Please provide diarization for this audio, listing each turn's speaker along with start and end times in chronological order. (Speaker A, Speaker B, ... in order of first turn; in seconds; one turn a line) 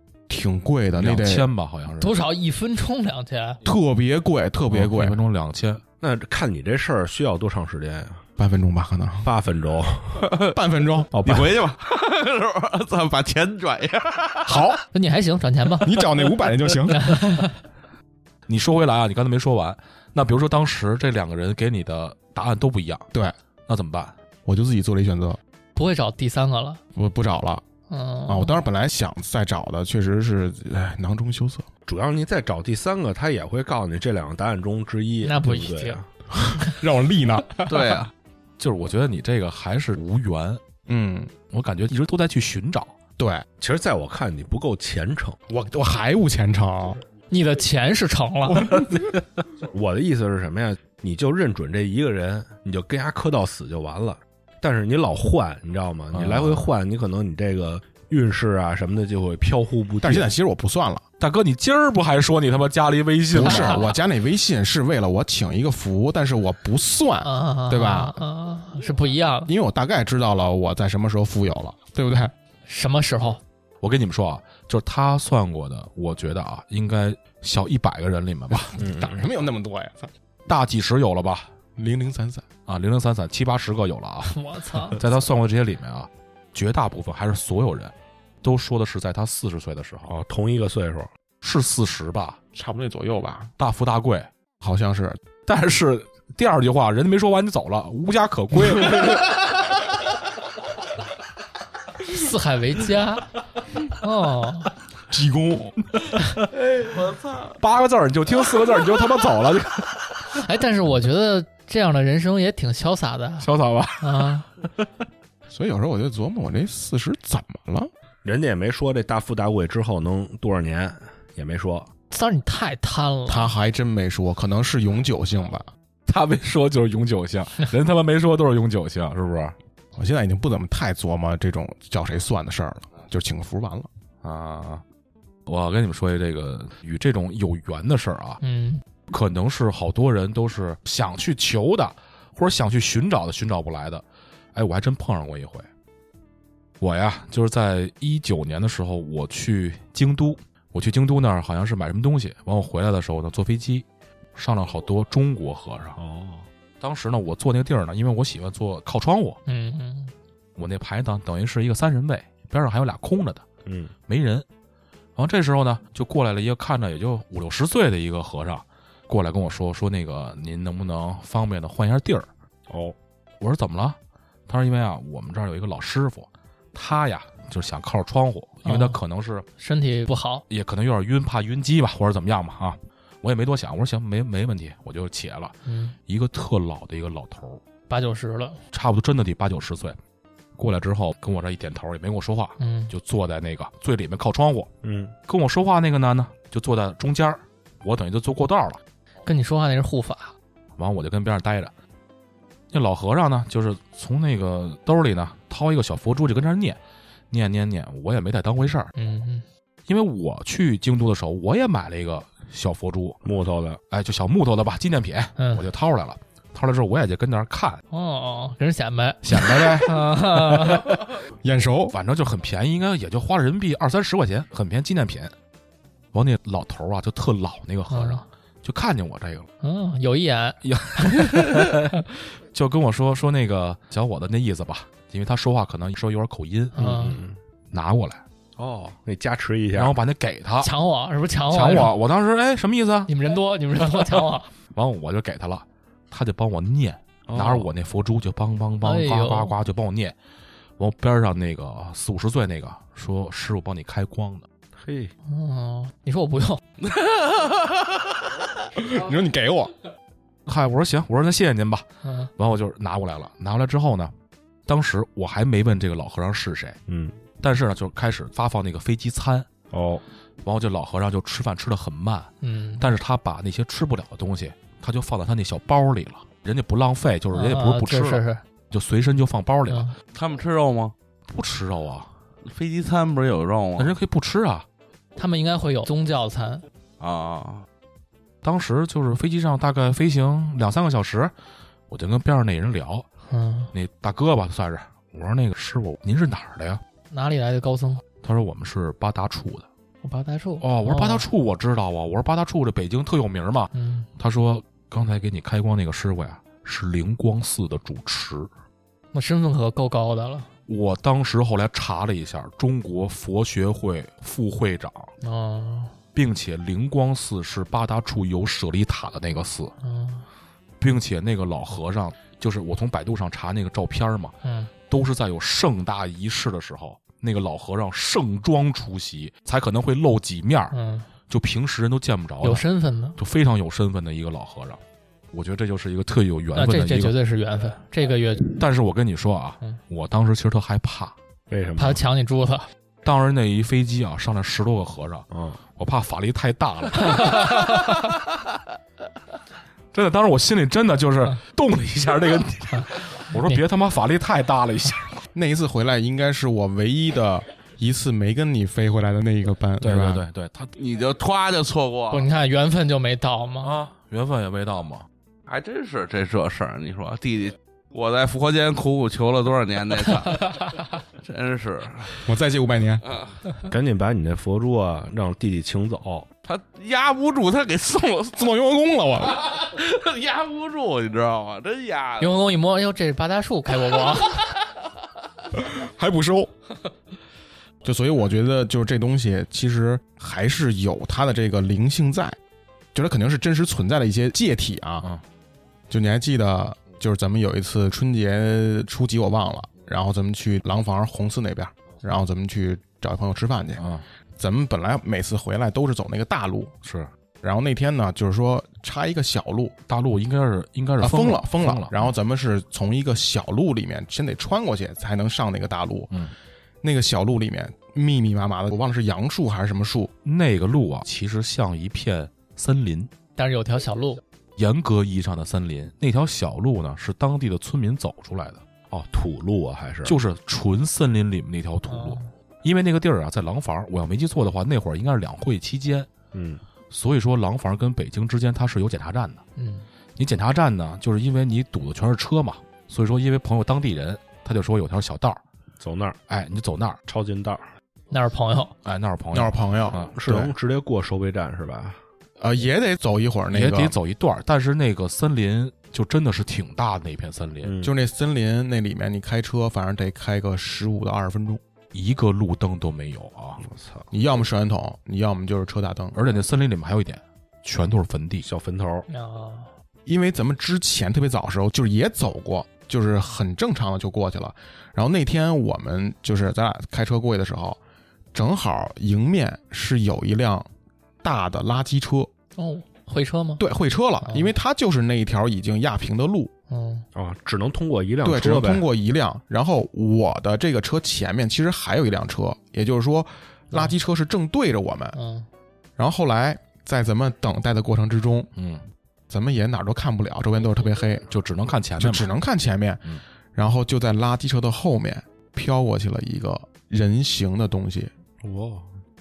Speaker A: 0.3-1.5
Speaker B: 0.9-2.2
Speaker C: 2.0-3.6
Speaker A: 3.6-5.2
Speaker B: 4.7-5.8
Speaker D: 6.0-8.2
Speaker A: 8.4-9.3
Speaker D: 9.2-10.3
Speaker A: 10.4-11.2
Speaker D: 11.1-11.6
Speaker E: 11.3-14.7
Speaker A: 14.5-14.8
Speaker C: 14.9-15.9
Speaker A: 15.8-17.2
Speaker C: 16.9-17.6
Speaker B: 18.5-23.1
Speaker B: 23.7-24.1
Speaker A: 24.4-25.4
Speaker C: 25.8-26.8
Speaker A: 26.9-27.6
Speaker C: 27.9-28.6
Speaker A: 28.3-31.7
Speaker D: 31.9-36.1
Speaker C: 35.2-36.0
Speaker A: 36.3-38.0
Speaker E: 37.7-38.1
Speaker B: 38.6-40.6
Speaker A: 40.9-41.3
Speaker B: 41.5-42.9
Speaker A: 43.2-43.5
Speaker D: 43.6-45.4
Speaker A: 45.5-47.0
Speaker C: 47.3-48.7
Speaker D: 49.7-60.3
Speaker B: 56.1-56.7
Speaker A: 60.0-61.0
Speaker B: 61.2-64.0
Speaker A: 63.3-68.2
Speaker C: 63.4-63.8
Speaker C: 67.2-69.5
Speaker A: 69.5-72.3
Speaker C: 72.7-73.4
Speaker B: 73.8-78.7
Speaker A: 78.5-80.1
Speaker D: 78.8-79.3
Speaker B: 80.5-81.5
Speaker A: 81.8-82.4
Speaker B: 82.7-90.1
Speaker C: 84.3-85.0
Speaker D: 90.1-91.1
Speaker B: 91.4-92.4
Speaker A: 92.5-93.5
Speaker B: 93.6-94.3
Speaker A: 94.6-95.2
Speaker B: 95.4-99.6
Speaker C: 102.0-103.3
Speaker C: 103.8-104.7
Speaker A: 105.1-105.7
Speaker B: 106.0-106.5
Speaker E: 106.8-107.5
Speaker B: 107.5-110.4
Speaker C: 110.4-113.5
Speaker B: 113.4-114.3
Speaker C: 114.0-114.5
Speaker A: 115.5-117.9
Speaker D: 118.2-121.9
Speaker C: 122.1-123.5
Speaker A: 123.3-125.7
Speaker B: 126.1-129.6
Speaker A: 129.9-133.9
Speaker B: 134.2-134.8
Speaker B: 135.5-138.4
Speaker C: 138.4-138.8
Speaker B: 139.1-144.0
Speaker B: 144.5-145.7
Speaker B: 146.8-156.0
Speaker D: 156.0-156.4
Speaker B: 156.8-159.4
Speaker C: 159.5-160.1
Speaker B: 160.6-163.4
Speaker D: 163.7-163.9
Speaker B: 164.1-164.4
Speaker B: 165.2-172.3
Speaker D: 172.7-172.9
Speaker B: 173.4-179.4
Speaker C: 178.6-179.0
Speaker C: 179.6-180.4
Speaker B: 180.5-185.6
Speaker C: 185.7-185.9
Speaker B: 186.1-187.6
Speaker C: 187.9-188.6
Speaker B: 188.7-190.0
Speaker B: 190.6-194.7
Speaker C: 192.6-192.9
Speaker D: 194.8-195.1
Speaker B: 195.3-198.8
Speaker C: 199.3-200.3
Speaker B: 200.8-201.7
Speaker B: 202.7-206.8
Speaker B: 207.3-208.9
Speaker C: 208.9-209.4
Speaker B: 209.9-213.2
Speaker D: 213.2-213.8
Speaker B: 213.9-217.8
Speaker C: 215.4-215.7
Speaker C: 217.9-220.9
Speaker B: 219.2-219.9
Speaker A: 219.3-219.9
Speaker A: 221.4-221.9
Speaker B: 221.9-225.3
Speaker B: 226.1-229.5
Speaker C: 227.9-228.2
Speaker C: 229.6-231.9
Speaker B: 230.6-231.9
Speaker B: 232.5-237.0
Speaker C: 236.7-237.2
Speaker D: 236.8-237.4
Speaker B: 237.7-238.2
Speaker D: 238.6-240.0
Speaker B: 239.8-240.7
Speaker C: 240.6-241.9
Speaker B: 241.5-243.1
Speaker C: 243.1-244.5
Speaker B: 244.7-250.1
Speaker D: 247.3-247.7
Speaker C: 248.8-249.5
Speaker B: 250.8-254.4
Speaker D: 254.7-255.1
Speaker C: 255.3-256.6
Speaker E: 256.8-258.5
Speaker A: 258.8-259.7
Speaker B: 260.4-261.9
Speaker C: 262.0-262.3
Speaker B: 262.4-264.1
Speaker B: 264.7-266.8
Speaker D: 266.9-267.2
Speaker B: 267.4-269.5
Speaker D: 269.7-270.0
Speaker B: 270.4-279.9
Speaker C: 272.4-272.9
Speaker C: 277.3-278.4
Speaker C: 279.7-279.9
Speaker E: 280.1-280.9
Speaker B: 281.3-282.1
Speaker E: 282.4-284.0
Speaker B: 283.8-284.7
Speaker C: 285.2-286.6
Speaker E: 287.0-287.7
Speaker B: 288.4-291.3
Speaker B: 291.9-293.1
Speaker C: 293.3-293.7
Speaker B: 293.7-296.8
Speaker C: 297.1-298.0
Speaker B: 298.2-299.7
Speaker C: 300.0-301.3
Speaker B: 300.6-308.5
Speaker C: 303.7-304.1
Speaker C: 309.1-310.5
Speaker B: 310.7-315.1
Speaker C: 315.2-315.9
Speaker B: 316.1-319.7
Speaker C: 319.8-320.2
Speaker B: 320.8-324.4
Speaker C: 324.4-324.7
Speaker B: 324.9-330.7
Speaker C: 330.7-331.1
Speaker B: 331.3-332.6
Speaker C: 332.4-333.2
Speaker B: 333.2-334.8
Speaker B: 335.3-337.1
Speaker C: 336.6-338.6
Speaker B: 338.4-341.1
Speaker D: 341.5-342.0
Speaker C: 341.8-342.7
Speaker B: 343.0-348.1
Speaker D: 345.3-345.6
Speaker C: 347.4-347.9
Speaker B: 349.9-355.2
Speaker A: 355.3-360.2
Speaker B: 359.8-360.7
Speaker E: 360.8-362.3
Speaker C: 362.1-363.7
Speaker B: 363.6-365.1
Speaker E: 365.5-370.6
Speaker E: 371.2-372.2
Speaker A: 372.3-373.0
Speaker D: 373.7-376.3
Speaker E: 376.4-378.4
Speaker A: 378.4-379.4
Speaker E: 379.4-382.4
Speaker C: 382.2-384.5
Speaker A: 385.5-386.5
Speaker A: 387.8-392.4
Speaker A: 392.9-395.1
Speaker A: 395.9-403.9
Speaker B: 403.8-404.0
Speaker A: 404.4-406.7
Speaker B: 406.8-407.1
Speaker A: 407.4-409.7
Speaker B: 409.9-412.1
Speaker A: 411.0-416.1
Speaker A: 416.8-420.1
Speaker B: 420.2-423.1
Speaker C: 423.4-424.2
Speaker B: 424.6-428.6
Speaker D: 428.9-430.2
Speaker B: 430.1-436.1
Speaker C: 431.9-432.2
Speaker D: 436.3-436.6
Speaker B: 436.9-439.4
Speaker C: 439.6-439.9
Speaker B: 440.2-445.4
Speaker D: 445.8-446.2
Speaker B: 446.3-447.0
Speaker D: 447.1-447.6
Speaker C: 448.1-448.7
Speaker B: 448.9-450.1
Speaker A: 449.3-450.5
Speaker D: 450.1-452.0
Speaker A: 452.4-453.9
Speaker B: 453.5-457.7
Speaker D: 457.6-457.9
Speaker A: 457.8-461.6
Speaker B: 461.9-463.6
Speaker D: 463.6-464.1
Speaker A: 464.1-466.2
Speaker B: 466.1-468.5
Speaker D: 468.4-469.1
Speaker C: 469.1-469.7
Speaker A: 470.1-477.8
Speaker A: 478.3-480.7
Speaker A: 481.2-482.3
Speaker C: 482.6-483.6
Speaker A: 483.6-486.5
Speaker C: 484.2-484.5
Speaker C: 486.7-487.1
Speaker D: 487.1-488.9
Speaker A: 488.2-495.2
Speaker C: 495.1-495.4
Speaker A: 496.0-498.5
Speaker B: 498.6-498.8
Speaker A: 499.3-501.3
Speaker B: 501.3-502.3
Speaker A: 502.0-508.1
Speaker D: 508.4-508.9